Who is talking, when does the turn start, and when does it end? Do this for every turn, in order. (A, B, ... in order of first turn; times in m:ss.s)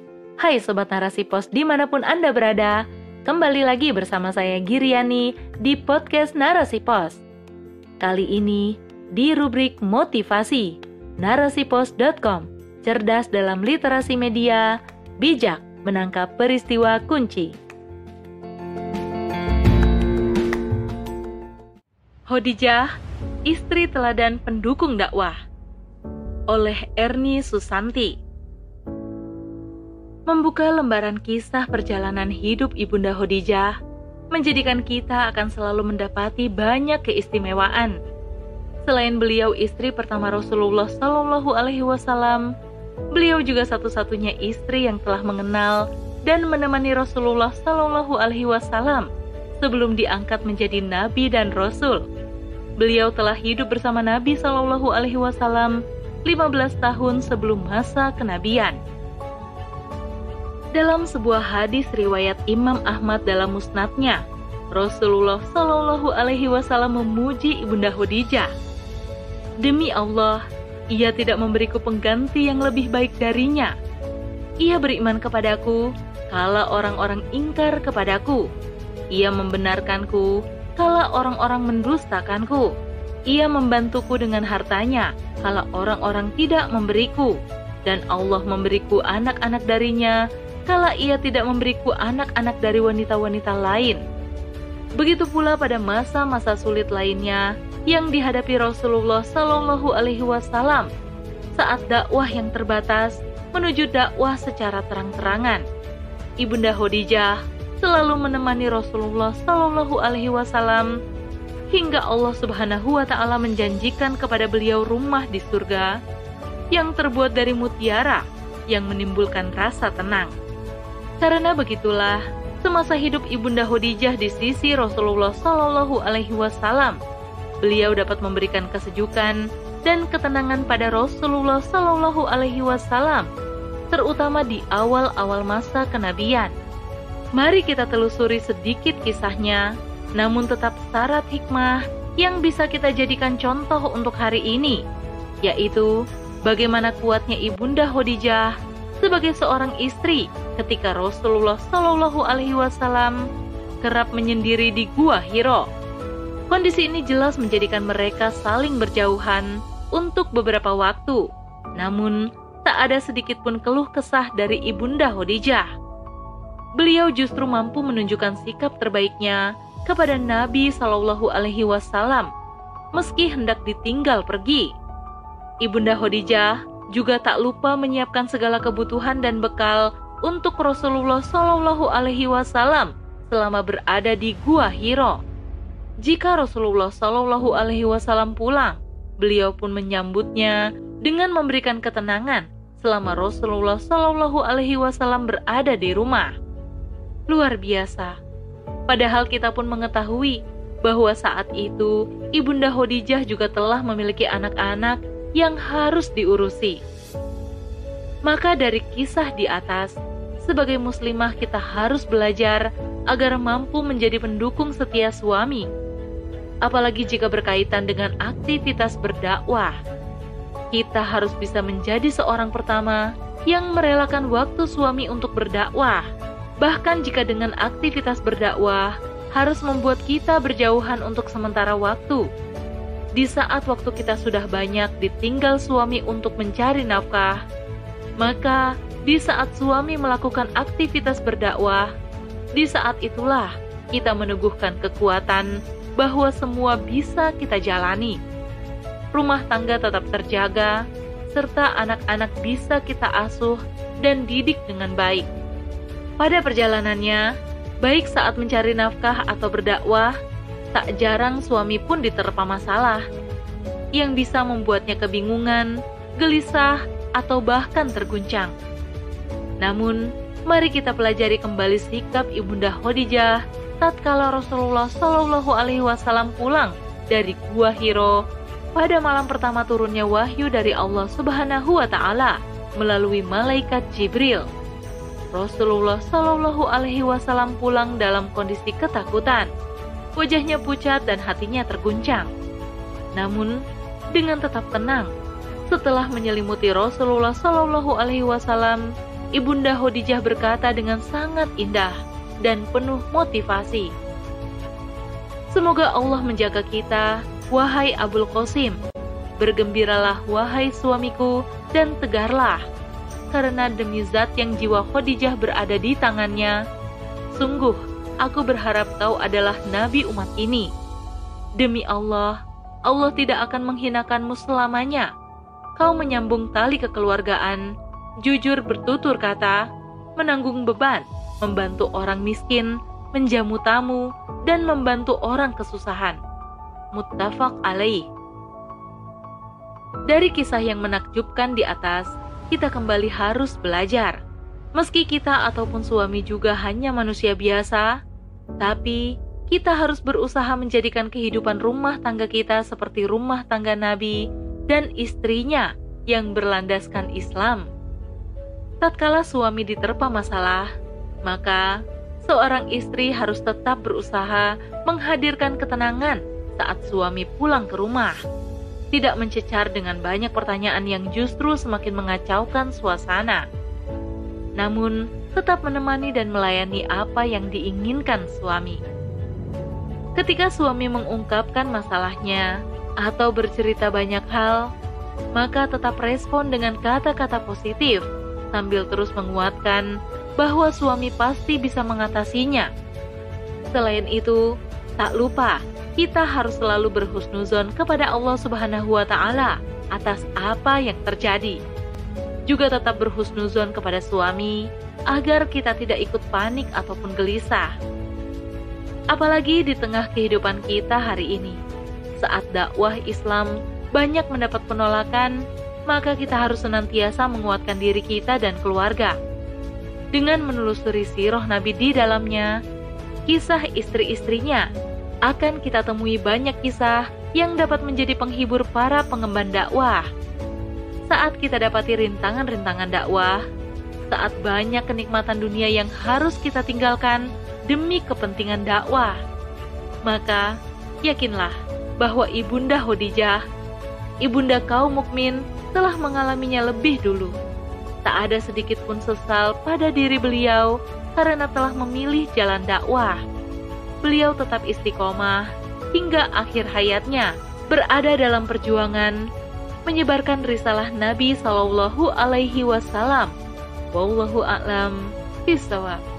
0:00.4-0:07.2 A
0:08.0-0:17.5 A
0:22.3-0:22.9 A
0:23.5-0:25.4 A
0:26.5-0:28.1 A
0:30.3-0:33.8 A
0:34.3-0:37.9 A
0:38.8-0:42.5 A
0:43.1-0:49.1 A
0:49.6-0:52.0 A
0:52.8-0:58.8 A
1:00.7-1:04.2 A
1:04.7-1:08.5 A
1:09.6-1:10.4 A
1:10.9-1:13.7 A
1:14.6-1:18.4 A
1:19.1-1:22.7 A
1:23.3-1:34.0 A
1:35.0-1:40.9 A
1:41.6-1:45.6 A
1:46.4-1:50.9 A
1:51.7-1:55.9 A
1:56.7-2:00.3 A
2:01.2-2:07.0 A
2:07.6-2:13.3 A
2:13.9-2:16.5 A
2:17.4-2:19.6 A
2:20.2-2:24.8 A
2:25.4-2:25.9 A
2:26.4-2:33.2 A
2:33.8-2:35.6 A
2:36.5-2:41.2 A
2:41.8-2:45.7 A
2:46.8-2:52.3 A
2:53.0-2:54.7 A
2:55.6-3:05.2 A
3:06.0-3:16.3 A
3:17.3-3:18.1 A
3:18.9-3:26.8 A
3:28.2-3:29.9 A
3:30.4-3:35.6 A
3:36.6-3:39.7 A
3:40.7-3:46.0 A
3:46.6-3:52.2 A
3:53.2-3:57.4 A
3:58.2-4:01.9 A
4:02.6-4:08.2 A
4:09.1-4:10.8 A
4:11.3-4:15.3 A
4:16.2-4:17.2 A
4:17.8-4:20.1 A
4:20.7-4:23.0 A
4:24.0-4:28.5 A
4:29.6-4:38.2 A
4:38.7-4:44.4 A
4:45.3-4:49.5 A
4:50.2-4:52.3 A
4:53.1-4:53.6 A
4:54.1-4:55.1 A
4:55.7-4:58.8 A
4:59.4-5:03.9 A
5:05.5-5:08.8 A
5:09.4-5:12.6 A
5:13.3-5:16.6 A
5:17.3-5:20.7 A
5:21.6-5:25.1 A
5:25.8-5:27.6 A
5:28.2-5:29.6 A
5:30.2-5:36.2 A
5:36.9-5:38.0 A
5:40.1-5:44.2 A
5:44.8-5:47.9 A
5:48.6-5:57.7 A
5:58.8-6:00.7 A
6:01.2-6:01.7 A
6:02.2-6:08.2 A
6:08.9-6:13.4 A
6:14.6-6:18.8 A
6:20.2-6:22.5 A
6:23.0-6:24.6 A
6:25.4-6:29.8 A
6:30.4-6:32.7 A
6:33.7-6:34.4 A
6:35.0-6:41.6 A
6:42.5-6:47.7 A
6:49.1-6:51.6 A
6:52.2-6:55.4 A
6:55.9-6:59.2 A
7:00.1-7:02.5 A
7:03.3-7:04.6 A
7:05.3-7:10.0 A
7:11.1-7:13.4 A
7:14.1-7:19.2 A
7:20.0-7:20.5 A
7:21.0-7:23.4 A
7:24.2-7:27.3 A
7:28.0-7:33.2 A
7:34.0-7:39.2 A
7:39.8-7:43.3 A
7:43.9-7:46.0 A